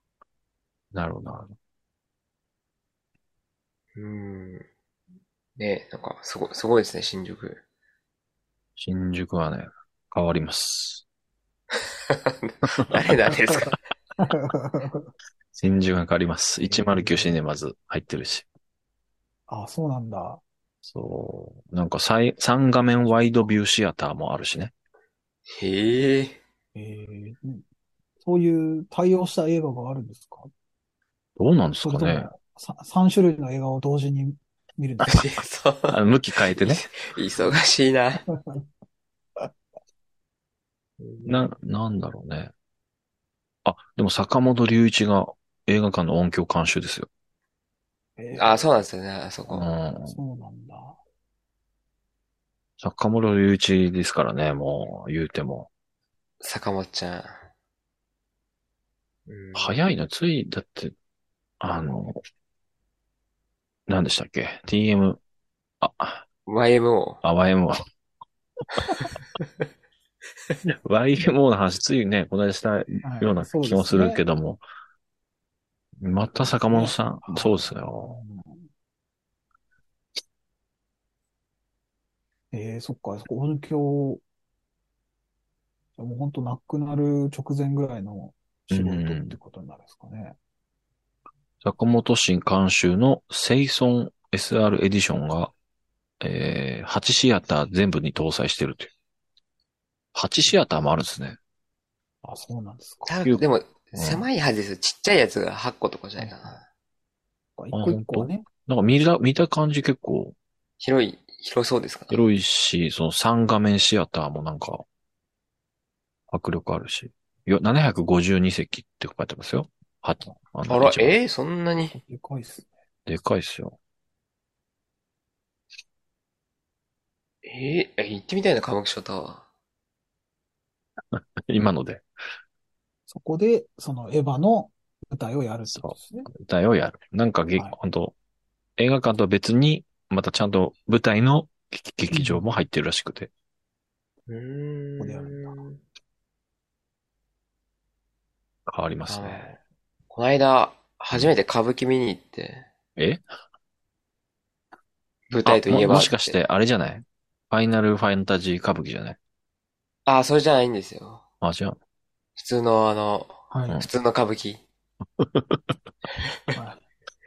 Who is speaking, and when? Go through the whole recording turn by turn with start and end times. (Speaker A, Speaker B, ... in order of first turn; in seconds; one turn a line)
Speaker A: 0.9-1.6
Speaker B: 4.0-4.7
Speaker B: 5.6-7.6
Speaker A: 8.8-11.0
Speaker B: 11.7-13.8
Speaker C: 13.7-15.1
Speaker A: 15.5-18.5
Speaker C: 16.6-17.4
Speaker C: 19.5-20.4
Speaker A: 20.8-24.7
Speaker B: 25.5-26.4
Speaker C: 26.8-27.6
Speaker C: 28.2-30.5
Speaker A: 31.4-32.3
Speaker C: 31.8-35.3
Speaker B: 35.0-36.0
Speaker A: 35.9-36.8
Speaker B: 36.5-38.2
Speaker C: 38.3-38.6
Speaker B: 41.0-41.4
Speaker A: 41.2-42.5
Speaker A: 43.6-47.1
Speaker C: 48.2-48.7
Speaker B: 48.4-49.7
Speaker A: 49.5-50.2
Speaker C: 50.1-51.0
Speaker A: 52.8-55.7
Speaker B: 56.4-57.4
Speaker B: 59.3-59.8
Speaker A: 59.5-60.9
Speaker A: 61.6-62.2
Speaker A: 63.9-65.2
Speaker A: 65.8-66.2
Speaker B: 66.5-67.2
Speaker A: 67.2-67.8
Speaker A: 70.7-74.6
Speaker C: 73.0-74.2
Speaker A: 76.0-78.2
Speaker C: 76.7-78.7
Speaker C: 82.5-84.2
Speaker C: 86.0-90.4
Speaker A: 88.7-89.4
Speaker A: 91.6-95.5
Speaker A: 96.2-98.9
Speaker A: 100.2-101.4
Speaker C: 102.2-103.1
Speaker B: 103.1-106.6
Speaker A: 103.2-104.3
Speaker C: 106.2-106.6
Speaker C: 107.6-108.5
Speaker A: 107.7-110.4
Speaker B: 110.8-112.2
Speaker A: 112.1-114.8
Speaker A: 116.3-121.2
Speaker B: 120.7-122.0
Speaker C: 121.9-122.7
Speaker A: 123.1-123.8
Speaker B: 127.5-129.4
Speaker A: 131.1-132.1
Speaker C: 133.1-136.3
Speaker A: 135.7-138.1
Speaker A: 138.8-143.3
Speaker C: 142.1-142.5
Speaker B: 144.3-145.8
Speaker C: 145.0-145.6
Speaker A: 148.7-149.5
Speaker B: 149.1-149.6
Speaker B: 150.1-152.7
Speaker A: 153.0-153.2
Speaker B: 155.3-156.4
Speaker A: 155.4-159.2
Speaker B: 160.1-161.2
Speaker A: 161.4-161.8
Speaker B: 162.4-164.6
Speaker C: 163.5-163.8
Speaker A: 165.2-165.8
Speaker C: 166.5-166.8